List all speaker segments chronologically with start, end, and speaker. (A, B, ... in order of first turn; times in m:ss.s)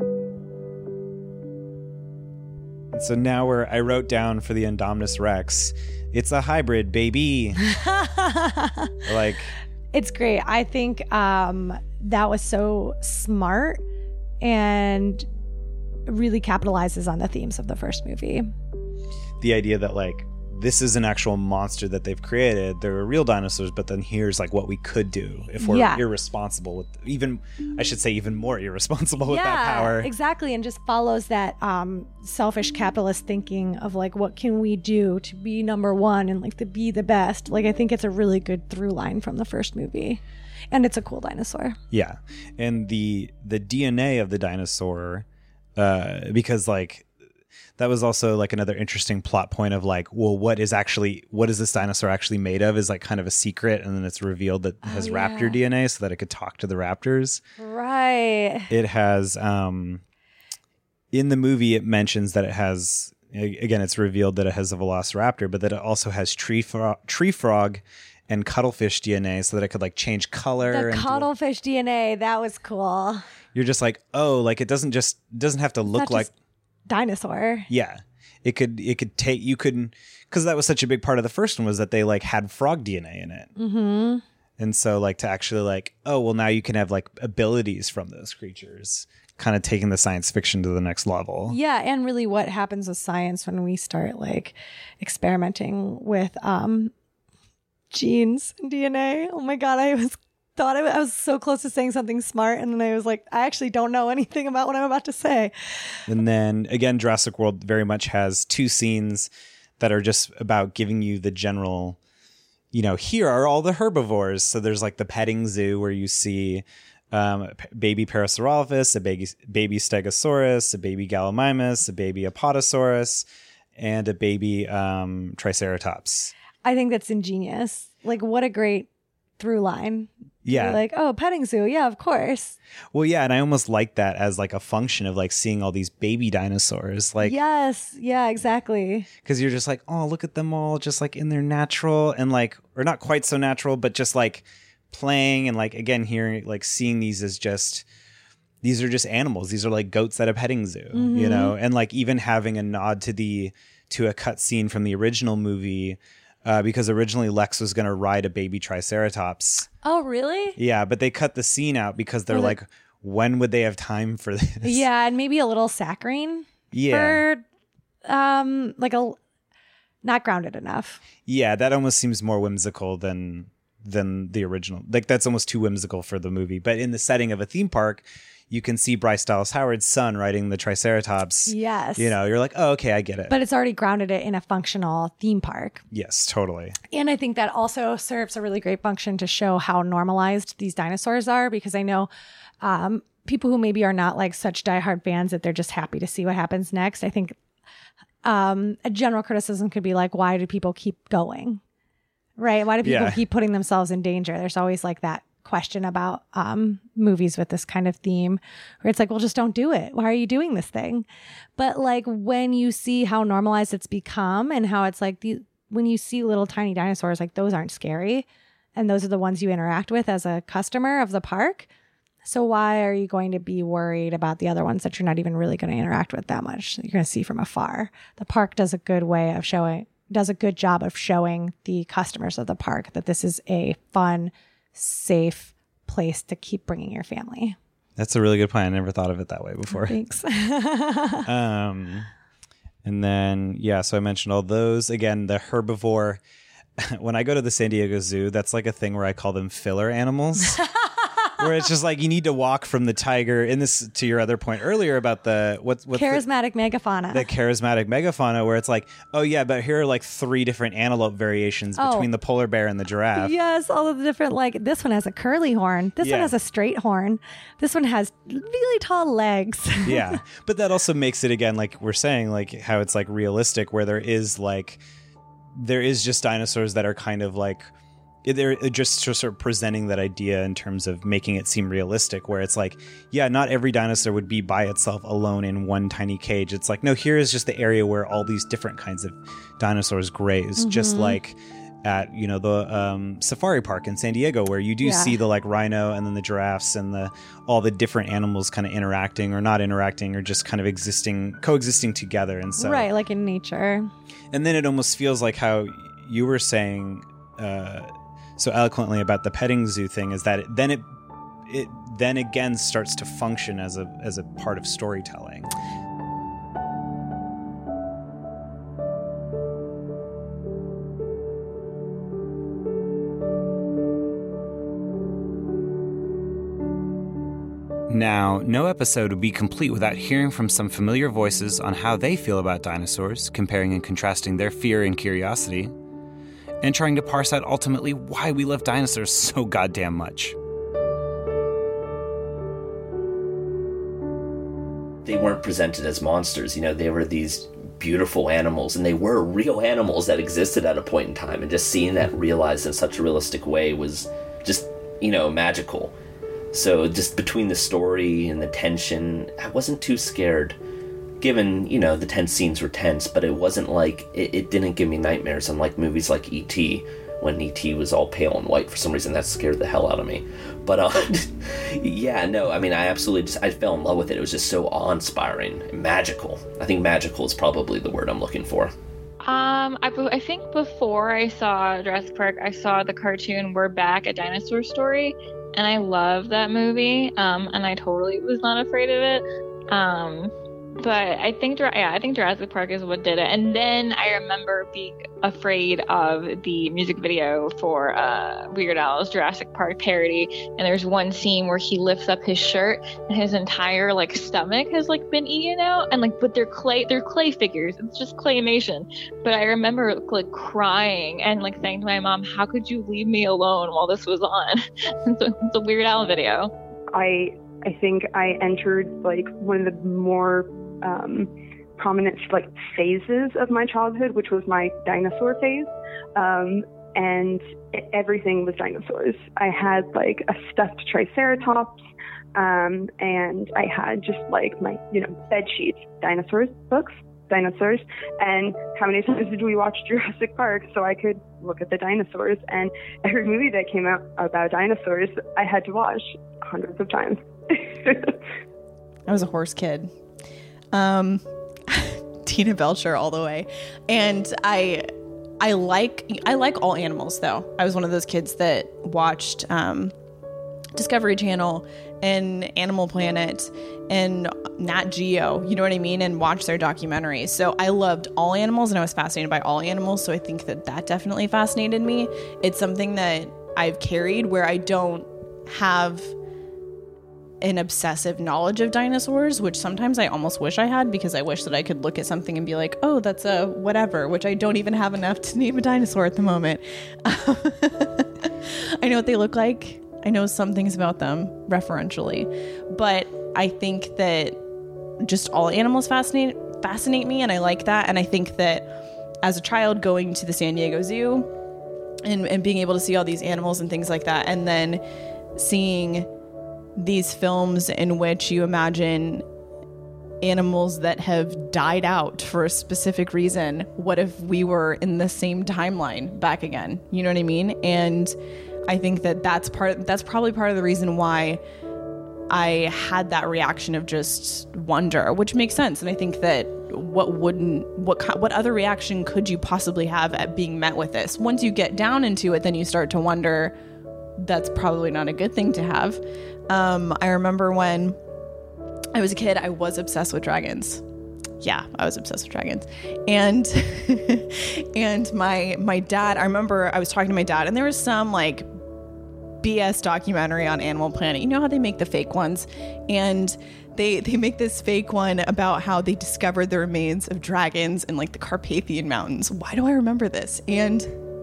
0:02.9-0:07.6 A
0:07.7-0:09.0 B
0:09.1-0:09.6 A
0:09.9-0:13.8 B
0:14.4-0:15.3 B
0:16.1-0:18.5 B
0:19.4-0:30.1 A
0:25.6-0:26.0 B
0:29.3-0:41.8 B
0:41.9-0:47.1 A
0:47.8-0:57.4 A
0:54.8-0:55.6 B
0:57.6-0:58.7 B
0:58.7-1:00.0 A
1:01.1-1:11.3 A
1:10.7-1:13.3 B
1:13.5-1:16.3 A
1:15.9-1:16.3 B
1:16.9-1:17.7 B
1:17.7-1:23.5 A
1:23.6-1:24.2 B
1:24.6-1:31.6 A
1:31.5-1:36.9 B
1:37.9-1:46.0 B
1:46.1-1:52.0 A
1:52.7-2:06.3 A
2:06.6-2:08.9 B
2:09.4-2:12.6 B
2:10.4-2:10.8 A
2:12.9-2:17.4 A
2:17.2-2:19.1 B
2:19.2-2:27.9 A
2:28.6-2:39.7 A
2:30.9-2:31.6 B
2:39.8-2:40.6 B
2:40.6-2:44.8 A
2:42.3-2:42.6 B
2:44.6-2:47.4 B
2:46.7-2:47.2 A
2:48.0-2:49.2 B
2:50.0-2:51.0 B
2:51.3-3:03.4 A
3:01.5-3:02.1 B
3:03.3-3:05.8 B
3:05.9-3:06.8 A
3:06.9-3:12.1 B
3:12.6-3:17.4 B
3:18.2-3:21.6 B
3:22.4-3:31.1 B
3:22.8-3:23.2 A
3:31.6-3:41.7 B
3:42.2-3:57.6 B
3:58.0-4:00.0 A
3:59.8-4:01.3 B
4:01.2-4:02.1 A
4:02.8-4:06.2 A
4:06.8-4:10.6 A
4:11.4-4:16.2 A
4:15.9-4:17.3 B
4:17.1-4:23.4 A
4:21.8-4:22.1 B
4:23.2-4:30.2 B
4:26.0-4:26.4 A
4:29.8-4:34.8 A
4:35.5-4:37.7 A
4:38.2-5:02.9 A
4:50.6-4:51.2 B
4:54.8-4:55.2 B
5:02.6-5:03.9 B
5:04.3-5:10.9 A
5:11.5-5:15.5 A
5:27.9-5:35.7 A
5:36.6-5:40.4 A
5:45.0-5:55.9 C
5:56.5-6:00.6 C
6:01.2-6:18.7 C
6:19.2-6:56.5 D
6:56.9-7:11.8 E
7:12.4-7:28.1 E
7:29.1-7:29.9 F
7:30.7-7:39.9 F
7:40.8-7:56.1 F
7:57.4-8:14.4 F
8:15.0-8:18.7 F
8:19.2-8:21.3 F
8:22.0-8:24.8 F
8:25.4-8:26.1 F
8:26.8-8:29.2 F
8:30.2-8:38.1 F
8:38.7-8:41.4 F
8:42.3-8:53.6 F
8:54.2-8:58.0 F
8:58.9-9:00.8 F
9:01.4-9:08.5 F
9:09.4-9:20.9 F